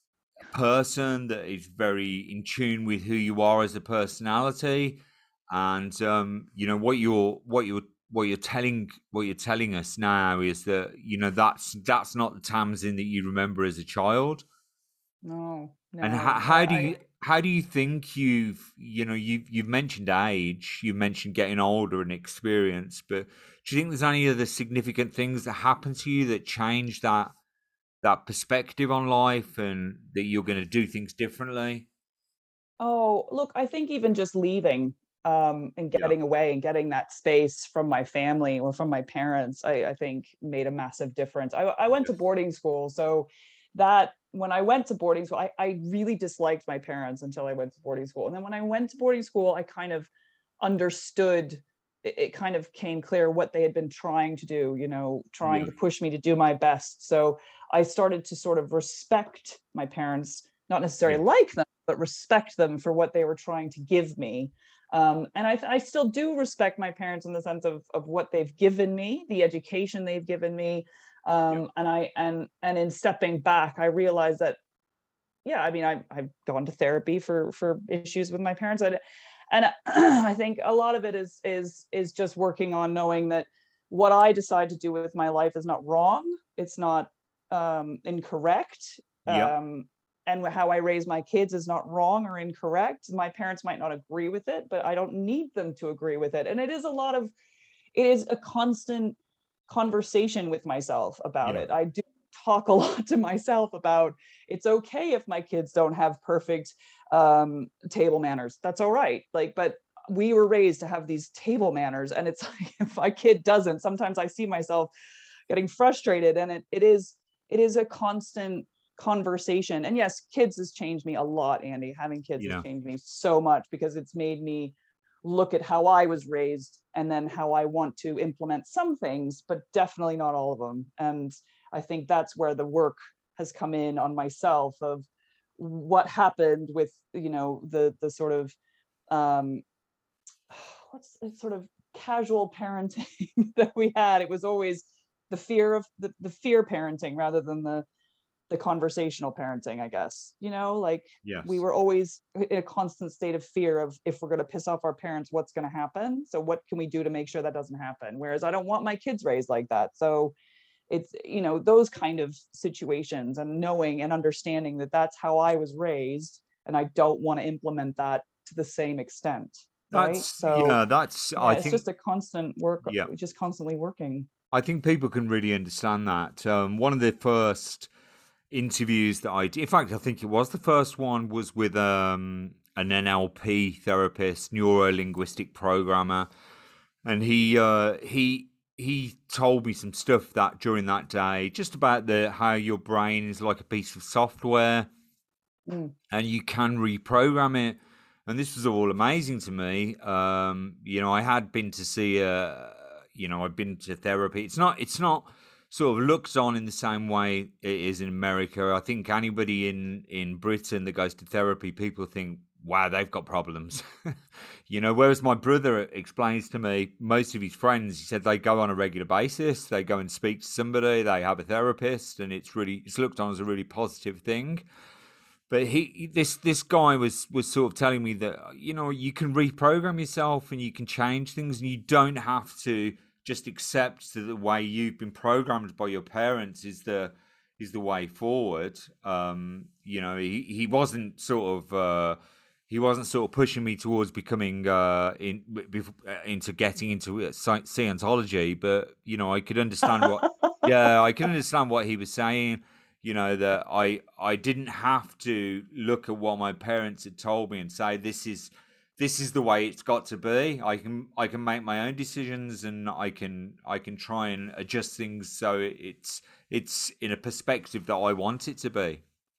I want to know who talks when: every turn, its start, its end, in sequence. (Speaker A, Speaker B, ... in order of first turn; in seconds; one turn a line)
Speaker A: 0.5-14.4
Speaker B: 15.2-17.0
Speaker A: 16.0-27.3
Speaker A: 28.0-31.9
Speaker B: 32.8-50.1
Speaker B: 50.6-74.6
Speaker A: 55.5-55.7
Speaker B: 75.5-79.0
Speaker B: 79.5-97.3
Speaker A: 89.3-89.5
Speaker B: 98.0-99.2
Speaker B: 99.7-114.9
Speaker B: 115.5-135.1
Speaker A: 122.4-122.6
Speaker B: 135.6-138.6
Speaker B: 139.1-139.6
Speaker B: 140.5-147.9
Speaker B: 148.5-160.3
Speaker A: 151.2-151.5
Speaker B: 160.9-170.8
Speaker A: 169.9-171.8
Speaker B: 171.4-174.3
Speaker A: 174.5-177.9
Speaker A: 178.5-186.3
Speaker A: 187.1-194.9
Speaker B: 195.7-195.9
Speaker A: 196.1-214.2
Speaker A: 214.7-224.7
Speaker A: 225.5-242.2
Speaker A: 242.7-269.0
Speaker B: 249.9-250.7